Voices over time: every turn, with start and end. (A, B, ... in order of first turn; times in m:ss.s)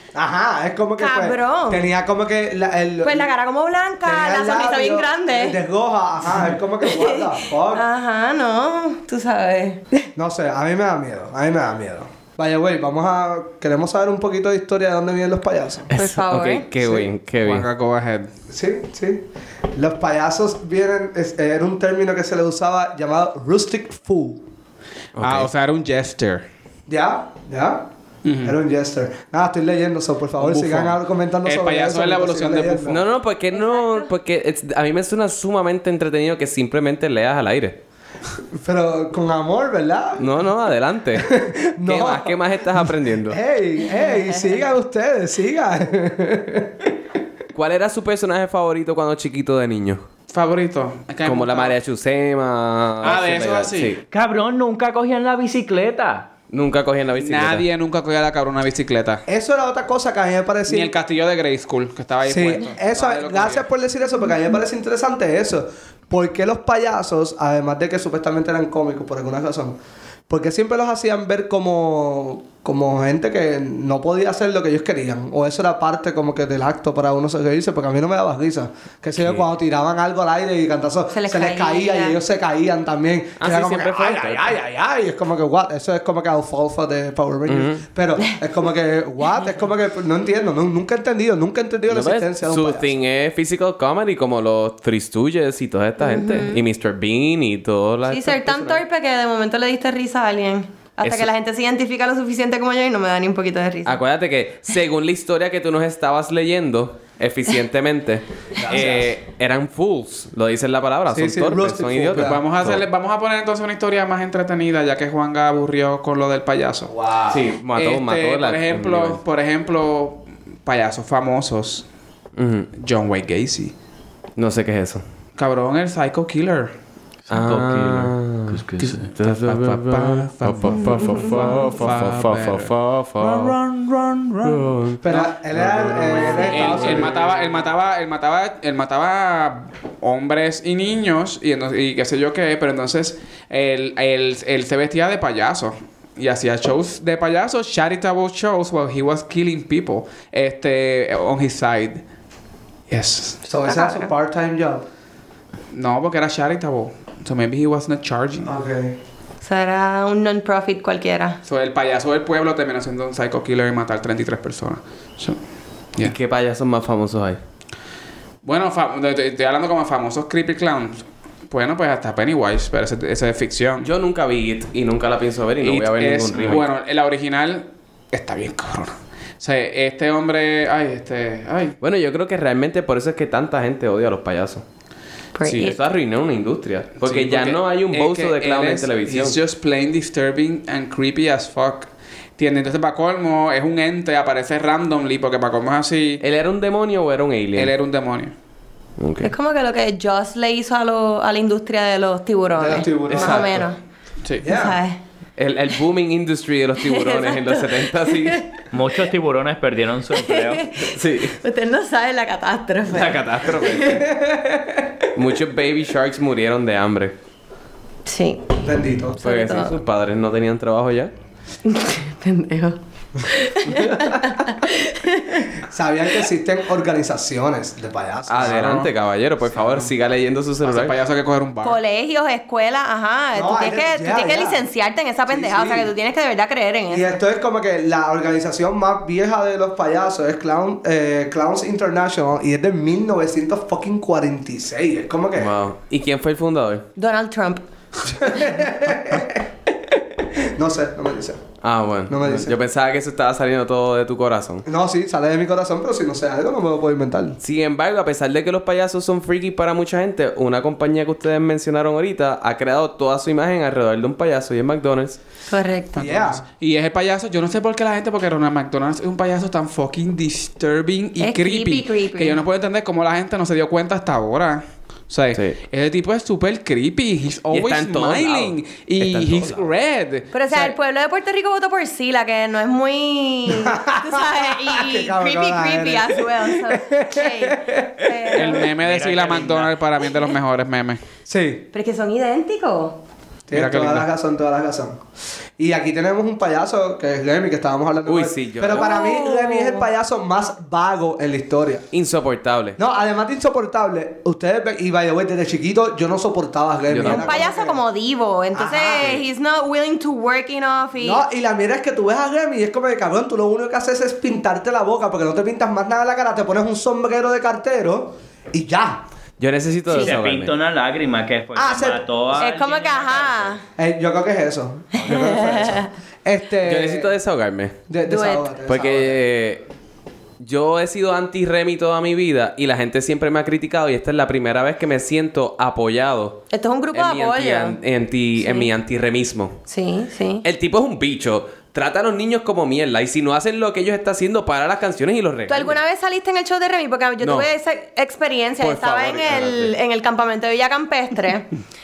0:00.1-0:03.3 A
0:01.0-0:01.9 B
0:03.0-0:05.6 B
0:04.0-0:07.8 A
0:06.8-0:10.1 B
0:10.2-0:15.9 A
0:15.9-0:16.7 B
0:15.9-0:17.7 C
0:16.8-0:17.1 A
0:17.4-0:18.3 D
0:18.5-0:24.4 A
0:25.2-0:25.5 C
0:25.2-0:26.4 D
0:26.9-0:27.8 A
0:28.2-0:28.6 D
0:28.4-0:33.0 A
0:30.4-0:33.0 D
0:32.9-0:37.8 C
0:33.5-0:34.1 B
0:38.5-0:40.4 A
0:40.2-0:41.3 C
0:41.2-0:47.0 A
0:41.8-0:43.4 C
0:47.5-0:50.0 C
0:50.3-0:51.8 D
0:51.2-0:54.0 C
0:53.0-0:54.0 D
0:54.1-0:56.3 E
0:56.5-0:57.6 C
0:57.2-0:59.2 D
0:59.3-1:00.9 A
1:00.7-1:03.6 D
1:02.2-1:09.8 A
1:10.3-1:32.9 A
1:19.2-1:19.5 C
1:21.1-1:22.2 B
1:23.4-1:24.5 C
1:27.5-1:27.8 C
1:31.9-1:38.8 C
1:36.0-1:36.6 B
1:38.1-1:44.0 B
1:43.9-1:52.8 C
1:48.6-1:49.1 A
1:51.1-1:52.4 A
1:52.2-1:56.9 D
1:56.9-1:57.4 A
1:57.3-1:59.2 C
1:57.7-2:01.8 D
2:02.4-2:02.7 C
2:02.8-2:03.7 D
2:04.4-2:05.0 C
2:05.4-2:06.7 D
2:07.3-2:09.1 E
2:07.3-2:13.6 C
2:08.9-2:15.3 D
2:11.0-2:11.7 B
2:14.4-2:15.0 C
2:15.0-2:17.3 A
2:15.6-2:17.1 C
2:15.9-2:32.0 D
2:32.9-2:33.4 D
2:33.4-2:34.8 A
2:33.6-2:34.1 B
2:35.7-2:38.5 D
2:38.4-2:39.0 A
2:39.4-2:41.4 B
2:41.4-2:45.4 D
2:46.0-2:47.4 C
2:48.4-2:53.9 D
2:53.8-2:56.7 C
2:55.6-3:01.8 D
3:01.8-3:04.6 C
3:05.4-3:05.8 B
3:05.5-3:05.7 D
3:05.6-3:09.4 C
3:07.0-3:16.2 D
3:16.2-3:17.7 C
3:17.6-3:18.3 D
3:19.0-3:19.3 C
3:19.2-3:23.8 B
3:22.6-3:23.6 A
3:23.1-3:23.6 C
3:24.4-3:24.8 A
3:24.4-3:25.0 B
3:25.4-3:28.4 C
3:26.8-3:28.7 B
3:28.7-3:30.7 E
3:30.1-3:34.0 B
3:30.8-3:31.4 C
3:32.9-3:34.0 C
3:33.8-3:34.9 A
3:35.1-3:37.2 C
3:38.0-3:38.6 B
3:38.6-3:39.2 A
3:39.2-3:41.1 C
3:39.2-3:39.8 B
3:41.6-3:45.6 B
3:43.6-3:44.4 A
3:45.6-3:48.9 A
3:48.3-3:51.0 C
3:48.4-3:48.9 D
3:49.6-3:49.9 A
3:50.6-3:51.8 D
3:51.6-3:57.2 B
3:53.4-3:54.6 A
3:55.3-3:55.9 A
3:56.9-4:05.5 A
4:05.4-4:06.9 C
4:07.0-4:07.6 B
4:08.0-4:09.5 A
4:08.2-4:08.5 B
4:10.2-4:11.5 A
4:11.6-4:14.6 C
4:12.1-4:12.6 A
4:14.6-4:17.4 A
4:17.4-4:25.2 C
4:25.5-4:26.1 B
4:26.0-4:40.8 D
4:26.0-4:26.4 A
4:31.2-4:32.4 B
4:37.5-4:39.7 C
4:40.3-4:48.7 B
4:43.6-4:48.6 A
4:48.3-4:51.0 D
4:48.8-4:49.7 E
4:51.3-4:51.7 A
4:51.7-4:53.0 B
4:53.5-4:55.0 A
4:53.5-4:54.1 D
4:55.6-5:01.9 A
4:58.1-4:59.0 C
4:58.7-4:59.9 B
5:01.9-5:02.8 C
5:02.8-5:07.8 A
5:06.9-5:07.4 C
5:07.0-5:11.2 B
5:08.5-5:09.2 A
5:11.0-5:19.0 A
5:19.4-5:20.5 C
5:19.9-5:23.6 E
5:21.6-5:22.1 A
5:22.4-5:23.6 B
5:23.8-5:27.1 A
5:24.9-5:25.9 B
5:26.6-5:27.8 C
5:27.9-5:29.2 A
5:28.1-5:28.5 B
5:28.7-5:29.6 C
5:30.4-5:39.6 C
5:36.5-5:37.8 B
5:38.4-5:38.7 B
5:39.7-5:40.5 B
5:40.4-5:45.8 C
5:45.5-5:51.5 B
5:47.2-5:47.5 C
5:48.6-5:49.7 C